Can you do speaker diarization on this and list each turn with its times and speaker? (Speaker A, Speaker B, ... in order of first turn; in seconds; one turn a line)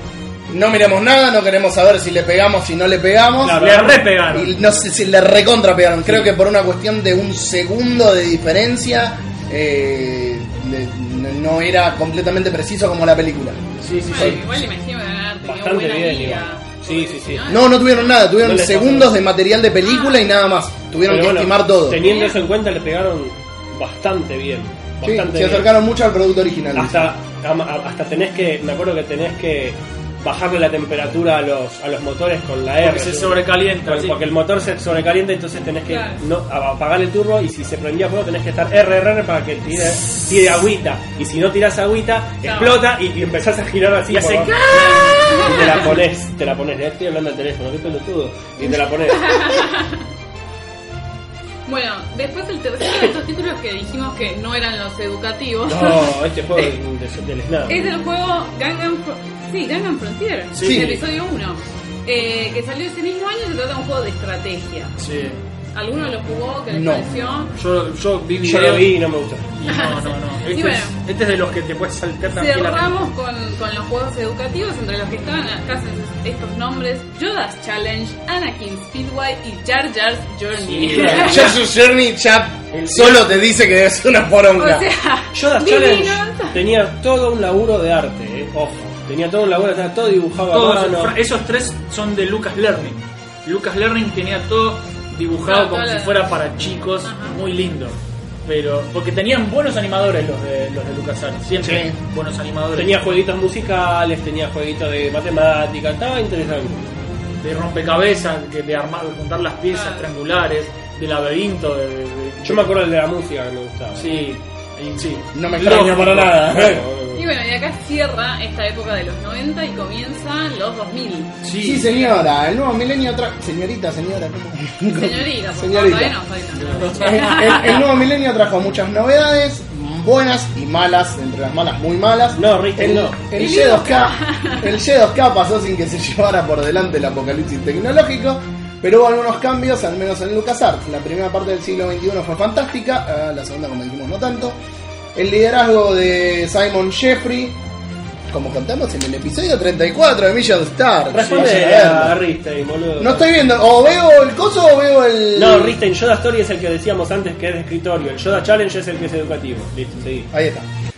Speaker A: 0.5-13.6
Speaker B: 3.4-4.3
Speaker C: 3.5-4.5
Speaker B: 6.1-6.3
Speaker C: 13.8-14.4
Speaker D: 14.1-17.9
Speaker A: 14.2-14.4
Speaker B: 15.4-17.5
Speaker A: 17.5-22.0
Speaker B: 18.4-19.1
Speaker D: 19.8-20.2
Speaker B: 21.1-25.7
Speaker D: 22.0-22.4
Speaker A: 25.0-27.1
Speaker B: 26.8-49.6
Speaker C: 32.8-34.2
Speaker D: 35.9-36.2
Speaker D: 42.4-42.8
Speaker C: 44.1-46.0
Speaker D: 44.5-45.8
Speaker D: 49.1-50.0
Speaker D: 51.7-56.2
Speaker B: 55.7-57.9
Speaker D: 57.7-64.9
Speaker C: 60.5-61.0
Speaker A: 60.6-61.0
Speaker C: 65.0-65.4
Speaker D: 65.7-67.5
Speaker A: 66.7-67.1
Speaker C: 67.5-68.9
Speaker B: 68.4-69.5
Speaker C: 69.5-73.0
Speaker D: 69.7-71.0
Speaker D: 72.3-81.5
Speaker C: 80.7-81.6
Speaker B: 80.8-81.3
Speaker A: 81.1-84.9
Speaker B: 82.9-83.2
Speaker D: 84.6-86.6
Speaker B: 85.3-91.2
Speaker C: 90.5-103.2
Speaker D: 95.4-96.3
Speaker D: 97.0-97.4
Speaker A: 101.6-102.0
Speaker B: 102.8-106.8
Speaker C: 107.4-112.7
Speaker D: 109.7-110.1
Speaker B: 112.4-114.2
Speaker C: 114.0-116.4
Speaker A: 115.3-116.8
Speaker B: 115.6-117.3
Speaker D: 117.1-121.3
Speaker C: 121.4-122.2
Speaker A: 121.6-126.2
Speaker D: 124.9-127.8
Speaker C: 126.6-127.5
Speaker A: 127.0-144.6
Speaker B: 132.3-133.2
Speaker D: 133.4-134.6
Speaker A: 145.2-147.6
Speaker A: 148.3-152.2
Speaker B: 151.1-153.3
Speaker C: 151.2-151.5
Speaker A: 153.0-155.8
Speaker B: 155.3-160.3
Speaker A: 160.3-160.7